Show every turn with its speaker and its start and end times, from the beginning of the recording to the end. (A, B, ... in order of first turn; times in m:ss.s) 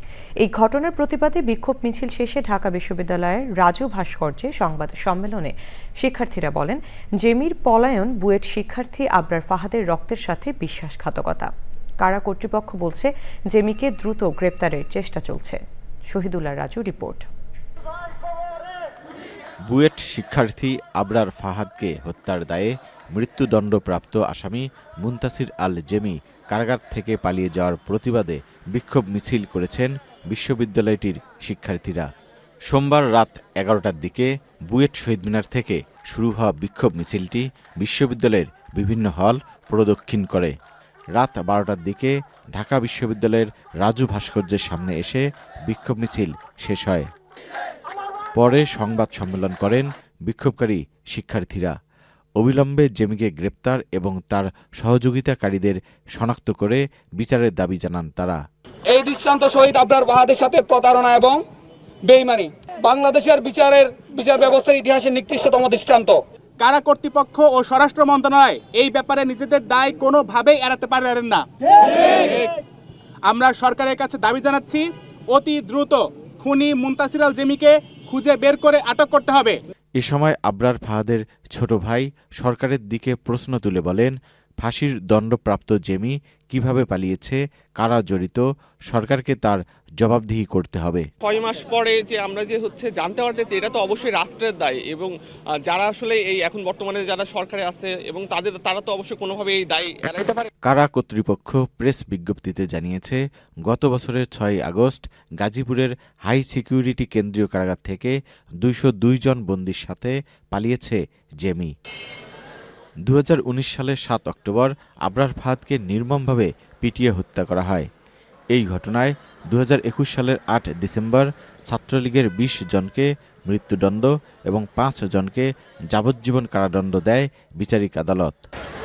0:00.4-0:11.5 A
0:12.0-0:15.6 A
0:16.1-0:17.2 A
0:19.7-0:32.1 B
0:32.7-0:40.5 B
0:41.2-0:47.1 B
0:48.4-0:51.7 B
0:52.4-0:58.4 B
0:58.9-1:01.4 C
1:02.1-1:06.2 C
1:06.6-1:12.5 D
1:13.3-1:19.6 D
1:20.0-1:31.1 B
1:31.2-1:40.5 E
1:40.7-1:51.7 B
1:53.1-1:57.9 B
1:58.5-2:08.4 B